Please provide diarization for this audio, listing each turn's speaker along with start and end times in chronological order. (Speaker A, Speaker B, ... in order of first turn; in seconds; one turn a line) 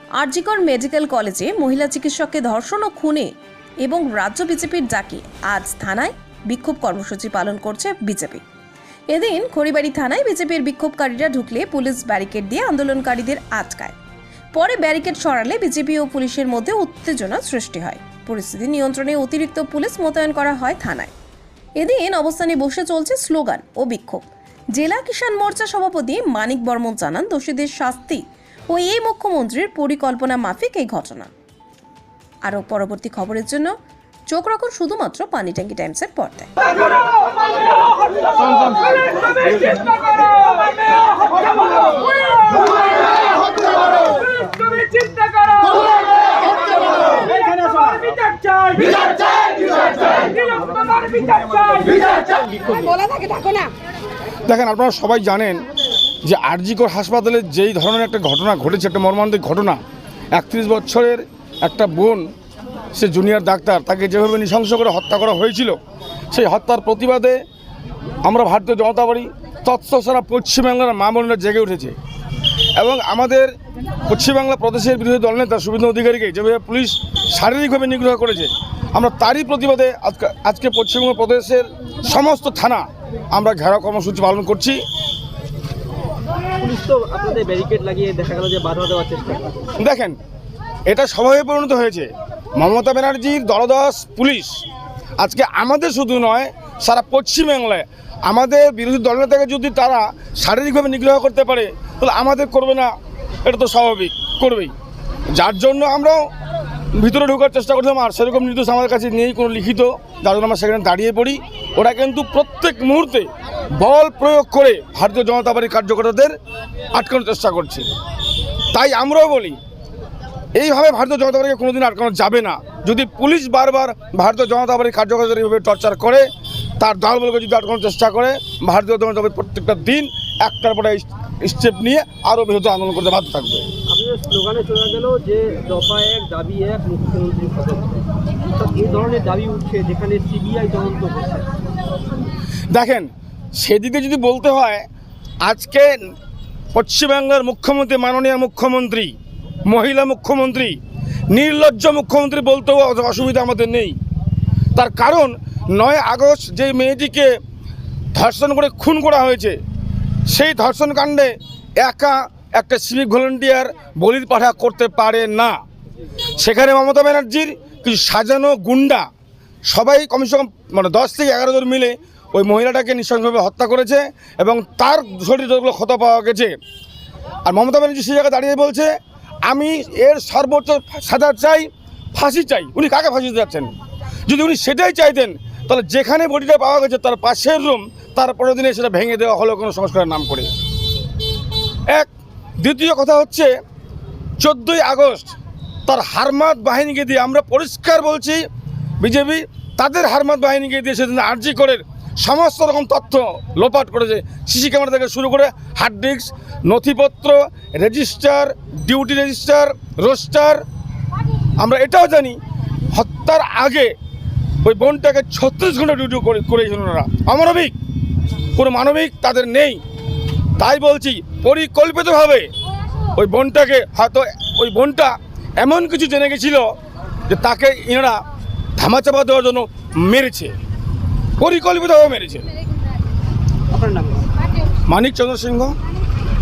Speaker A: 0.2-3.3
Speaker A: 3.8-8.4
Speaker A: 9.1-14.0
Speaker A: 14.5-21.1
Speaker A: 21.8-31.3
Speaker A: 32.4-33.7
Speaker A: 34.3-36.5
Speaker B: 45.2-45.7
Speaker B: 47.2-53.1
Speaker C: 54.5-55.6
Speaker C: 56.2-59.8
Speaker C: 60.3-62.3
Speaker C: 63.0-65.8
Speaker C: 66.3-67.4
Speaker C: 68.2-72.0
Speaker C: 72.8-73.5
Speaker C: 74.1-84.8
Speaker B: 86.6-89.7
Speaker C: 89.8-90.2
Speaker C: 90.9-94.7
Speaker C: 95.2-102.9
Speaker C: 103.4-104.7
Speaker C: 105.3-106.3
Speaker C: 106.9-116.3
Speaker C: 116.9-117.9
Speaker C: 118.7-119.6
Speaker C: 120.5-126.2
Speaker C: 126.8-133.7
Speaker B: 133.9-141.5
Speaker C: 142.7-144.9
Speaker C: 145.4-146.1
Speaker C: 146.7-149.1
Speaker C: 149.7-150.8
Speaker C: 151.3-154.0
Speaker C: 154.8-157.3
Speaker C: 158.1-159.6
Speaker C: 160.3-165.6
Speaker C: 166.4-169.1
Speaker C: 169.7-176.5
Speaker C: 177.4-178.9
Speaker C: 179.5-183.7
Speaker C: 184.3-190.5
Speaker C: 192.6-193.5
Speaker C: 194.4-195.4
Speaker C: 195.9-198.4
Speaker C: 199.0-210.6
Speaker C: 211.6-212.4
Speaker C: 212.9-213.9
Speaker C: 214.6-217.7
Speaker C: 218.6-219.8
Speaker C: 220.6-222.5
Speaker C: 223.2-226.7
Speaker C: 227.3-228.2
Speaker C: 228.8-230.5
Speaker C: 231.4-232.5
Speaker B: 233.7-234.3
Speaker C: 234.9-235.8